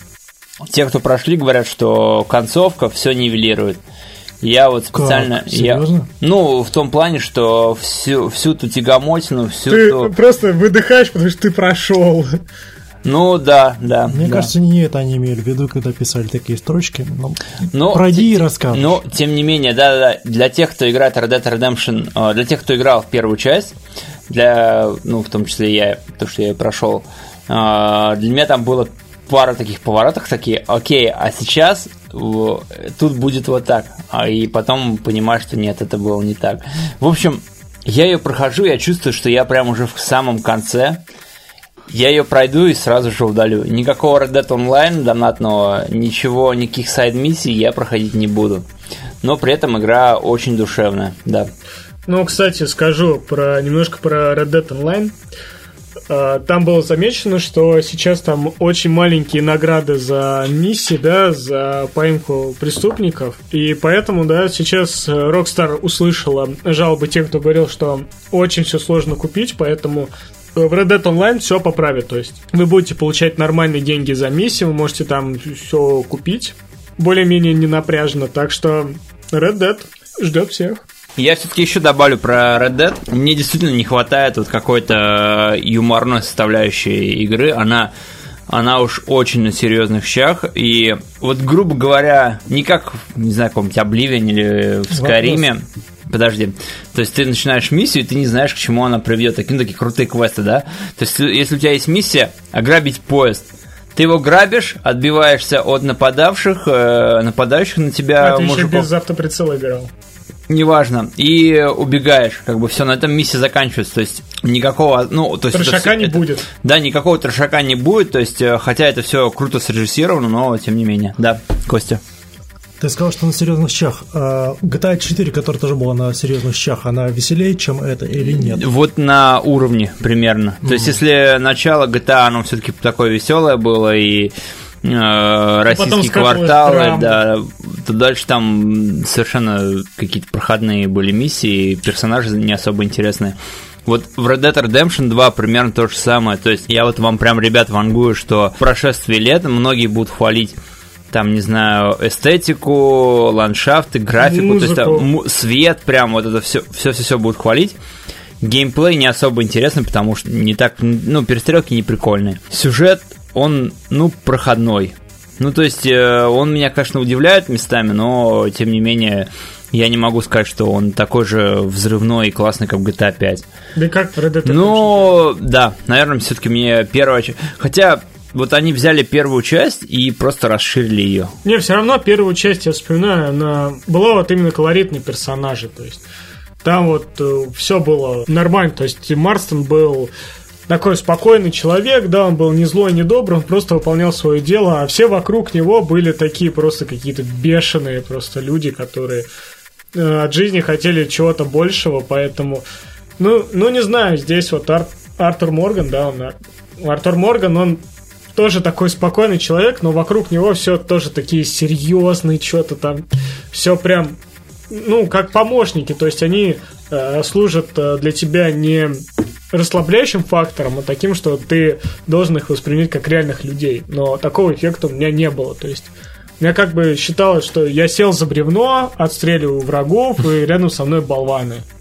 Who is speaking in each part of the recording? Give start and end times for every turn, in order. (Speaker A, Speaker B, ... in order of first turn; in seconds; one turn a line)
Speaker A: 0.7-3.8
Speaker A: 4.4-10.1
Speaker B: 4.9-6.1
Speaker C: 9.7-12.4
Speaker A: 13.0-14.5
Speaker B: 14.1-19.0
Speaker A: 17.7-23.8
Speaker A: 24.3-41.0
Speaker A: 41.9-48.7
Speaker A: 49.2-51.5
Speaker C: 52.1-55.1
Speaker C: 56.1-80.8
Speaker A: 81.2-87.9
Speaker A: 88.5-108.9
Speaker B: 94.9-95.5
Speaker C: 108.2-109.9
Speaker A: 110.5-122.0
Speaker C: 115.5-116.5
Speaker B: 122.8-128.7
Speaker A: 128.2-150.6
Speaker B: 130.6-131.0
Speaker C: 135.7-137.2
Speaker A: 151.1-157.8
Speaker C: 154.2-155.1
Speaker A: 158.4-173.5
Speaker C: 173.8-175.2
Speaker A: 174.4-181.3
Speaker C: 181.4-186.0
Speaker C: 186.6-190.1
Speaker C: 190.7-199.3
Speaker C: 199.9-202.7
Speaker C: 203.2-207.8
Speaker C: 208.3-214.2
Speaker C: 214.7-231.6